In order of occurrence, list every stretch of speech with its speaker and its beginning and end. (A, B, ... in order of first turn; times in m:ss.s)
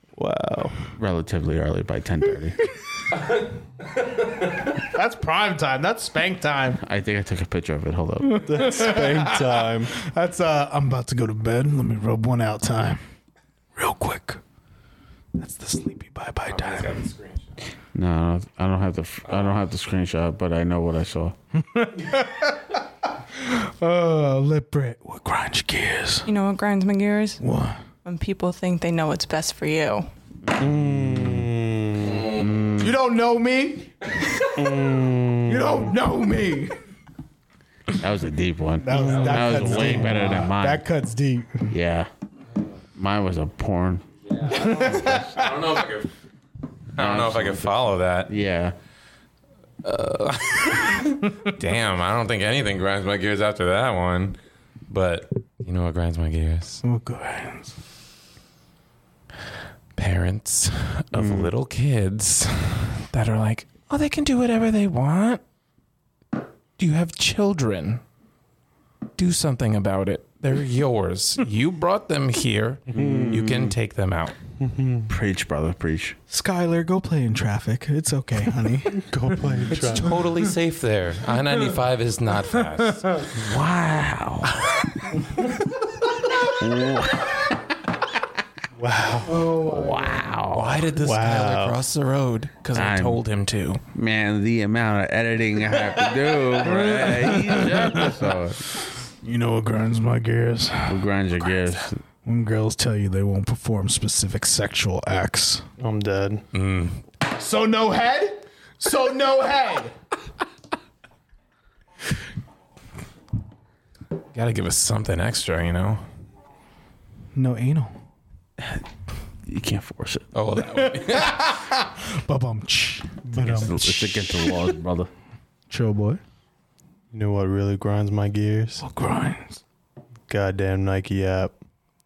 0:00.2-0:00.8 A
0:00.9-0:02.6 B
0:04.6-0:06.8 C
0:06.8-0:08.4 B
0:08.2-0:13.0 C
0:08.4-0:09.9 A
0:13.8-0:14.4 C
0:15.4-0:17.0 C
0:16.4-0:17.5 D
0:17.9-0:21.3 B
0:19.3-0:19.5 D
0:21.5-0:22.8 C
0:23.3-0:26.3 C
0:26.2-0:27.4 E
0:27.4-0:27.8 C
0:28.0-0:30.1 E
0:30.4-0:31.4 B
0:30.6-0:32.4 A
0:32.0-0:32.5 D
0:32.3-0:32.9 B
0:32.8-0:34.1 C
0:34.6-0:35.9 A
0:35.5-0:36.8 C
0:38.0-0:40.8 B
0:38.8-0:41.7 C
0:38.9-0:40.2 A
0:39.3-0:40.0 D
0:41.7-0:42.1 B
0:43.0-0:44.0 B
0:44.4-0:46.1 D
0:44.5-0:45.3 C
0:44.8-0:45.2 B
0:47.0-0:48.3 D
0:47.0-0:48.7 B
0:49.8-0:54.4 D
0:54.9-0:56.8 D
0:56.8-0:57.7 C
1:00.0-1:05.4 D
1:01.1-1:01.5 B
1:06.8-1:08.0 D
1:09.2-1:14.3 D
1:12.9-1:13.8 B
1:12.9-1:13.3 A
1:14.6-1:15.0 A
1:15.1-1:16.2 B
1:16.3-1:20.5 C
1:19.0-1:20.1 A
1:19.6-1:23.2 D
1:23.2-1:24.8 B
1:26.4-1:27.5 B
1:28.8-1:29.4 A
1:29.2-1:30.2 C
1:29.7-1:30.7 B
1:30.5-1:33.8 D
1:31.0-1:31.8 A
1:32.7-1:33.2 B
1:33.9-1:38.6 B
1:36.7-1:38.2 C
1:39.2-1:41.0 C
1:40.9-1:42.0 B
1:42.2-1:45.6 C
1:45.8-1:46.4 A
1:46.5-1:47.0 D
1:47.3-1:49.9 C
1:54.3-1:56.0 D
1:57.3-1:57.9 C
1:59.5-2:00.3 B
2:00.3-2:01.5 D
2:00.7-2:04.7 C
2:03.3-2:03.7 A
2:03.4-2:05.1 B
2:05.7-2:06.2 C
2:07.1-2:08.8 A
2:08.8-2:09.6 C
2:10.3-2:11.6 A